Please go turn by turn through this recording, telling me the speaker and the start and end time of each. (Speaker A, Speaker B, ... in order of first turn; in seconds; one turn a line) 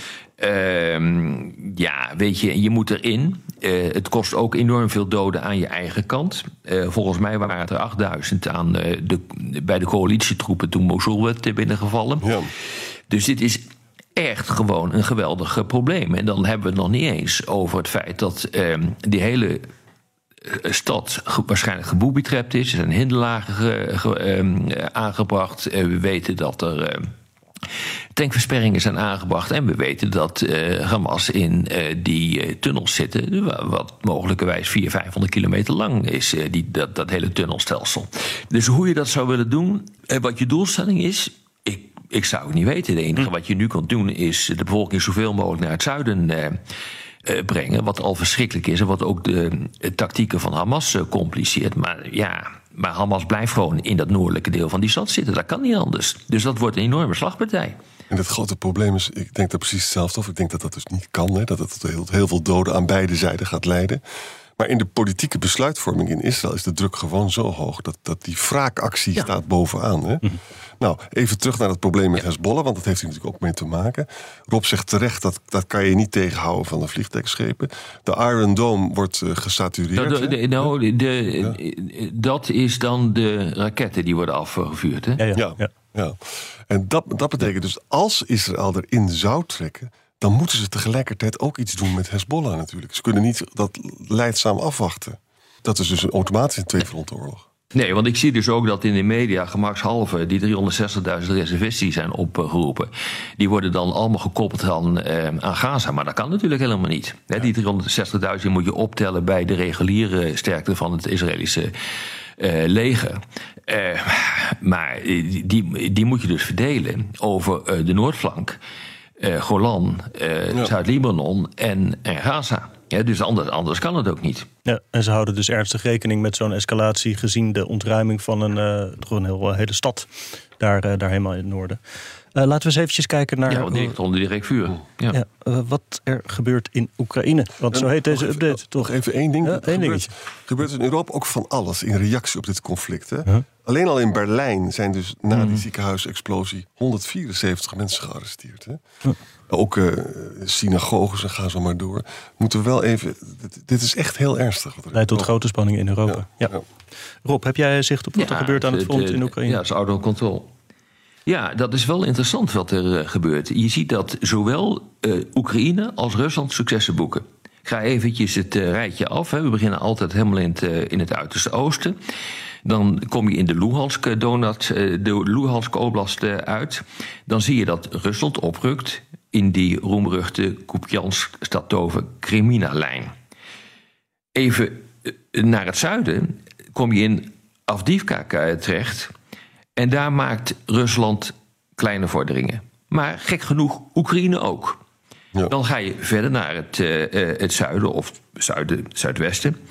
Speaker A: 0.4-12.3
Speaker B: 12.2-12.5
Speaker A: 13.1-13.6
Speaker A: 14.2-19.6
Speaker A: 20.4-27.1
Speaker A: 28.1-46.6
Speaker A: 47.2-57.8
Speaker B: 58.1-64.0
Speaker B: 64.6-70.2
Speaker B: 70.8-80.7
Speaker A: 79.9-85.2
Speaker C: 85.2-85.7
Speaker B: 85.3-86.2
Speaker B: 86.7-97.4
Speaker A: 97.7-111.7
Speaker A: 112.4-118.6
Speaker A: 119.2-124.5
Speaker C: 124.6-131.8
Speaker C: 132.3-133.9
Speaker A: 133.5-135.2
Speaker C: 135.1-140.1
Speaker B: 137.7-148.8
Speaker A: 145.3-145.6
Speaker B: 149.5-155.3
Speaker C: 154.9-156.5
Speaker B: 156.1-156.6
Speaker C: 157.2-159.6
Speaker A: 158.2-160.5
Speaker A: 161.2-172.0
Speaker A: 172.6-183.1
Speaker A: 184.3-189.1
Speaker A: 189.8-194.8
Speaker A: 195.5-199.5